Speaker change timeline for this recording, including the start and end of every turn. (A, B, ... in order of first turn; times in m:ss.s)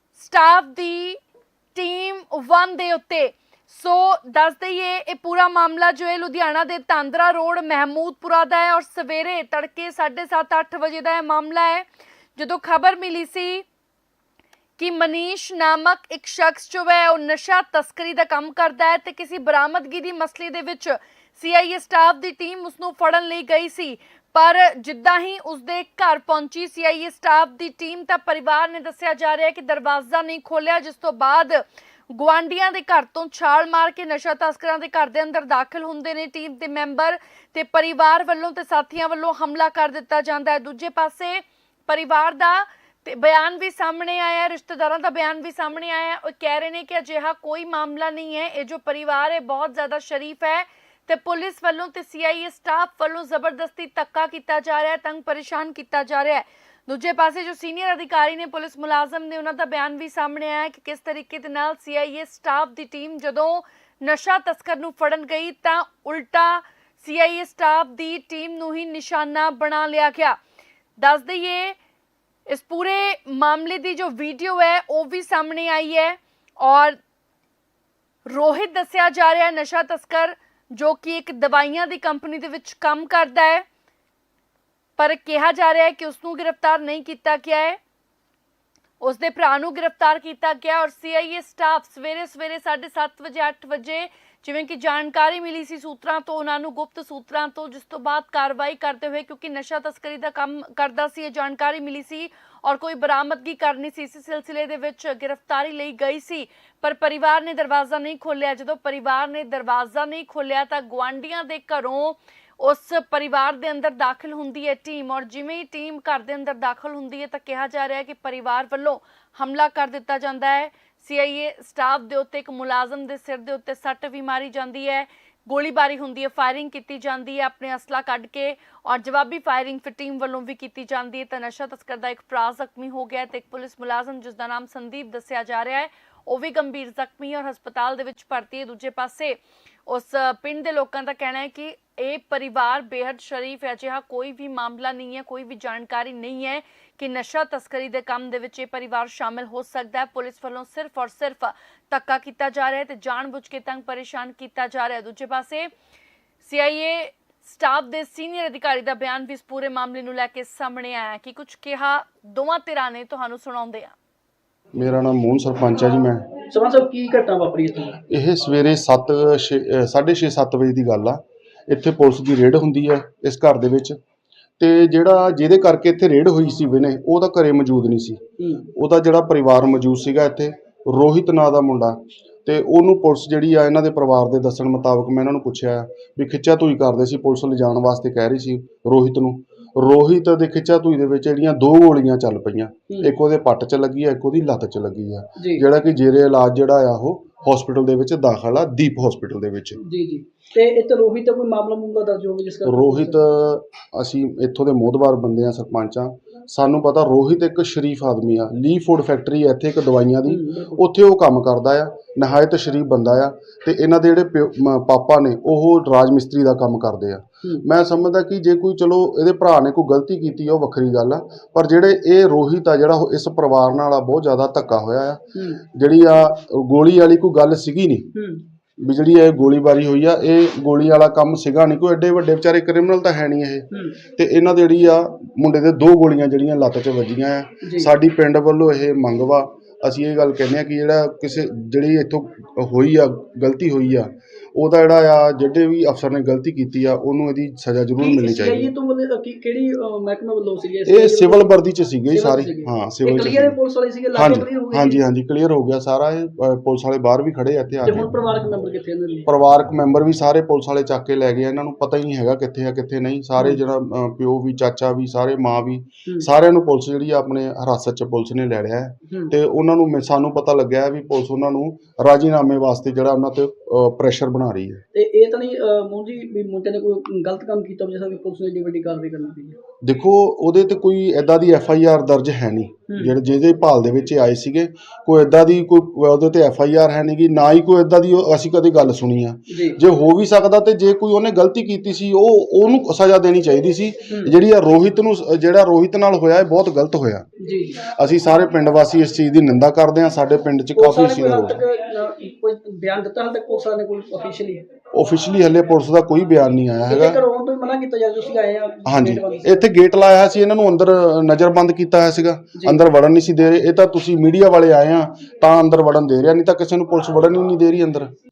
0:00.1-0:01.2 A
0:01.7-0:13.7 A
0:14.8-0:31.6 A
0:32.1-1:10.4 A
1:11.0-1:11.8 A
1:12.5-1:17.0 A
1:18.2-1:23.6 A
1:25.0-1:27.8 A
1:29.0-2:35.7 A
2:36.4-2:43.9 A
2:44.8-2:46.3 B
2:46.5-2:48.0 C
2:48.1-2:54.0 B
2:54.6-2:58.2 B
2:58.4-2:58.7 C
2:58.7-3:19.8 B
3:19.8-3:23.1 C
3:22.6-3:48.1 B
3:30.3-3:30.8 C
3:45.3-3:45.6 C
3:48.1-3:48.4 C
3:48.8-4:08.7 B
3:57.6-3:57.9 C
4:08.0-4:11.5 C
4:10.9-4:13.6 B
4:12.1-4:15.0 C
4:14.1-4:18.1 B
4:17.9-4:19.3 C
4:19.3-4:34.8 B
4:34.9-4:39.6 C
4:39.8-4:57.2 B
4:49.5-4:49.8 C
4:57.4-4:57.9 C
4:57.8-5:01.6 B
5:00.8-5:04.6 C
5:04.9-5:07.2 B
5:06.9-5:09.6 C
5:08.9-5:18.1 B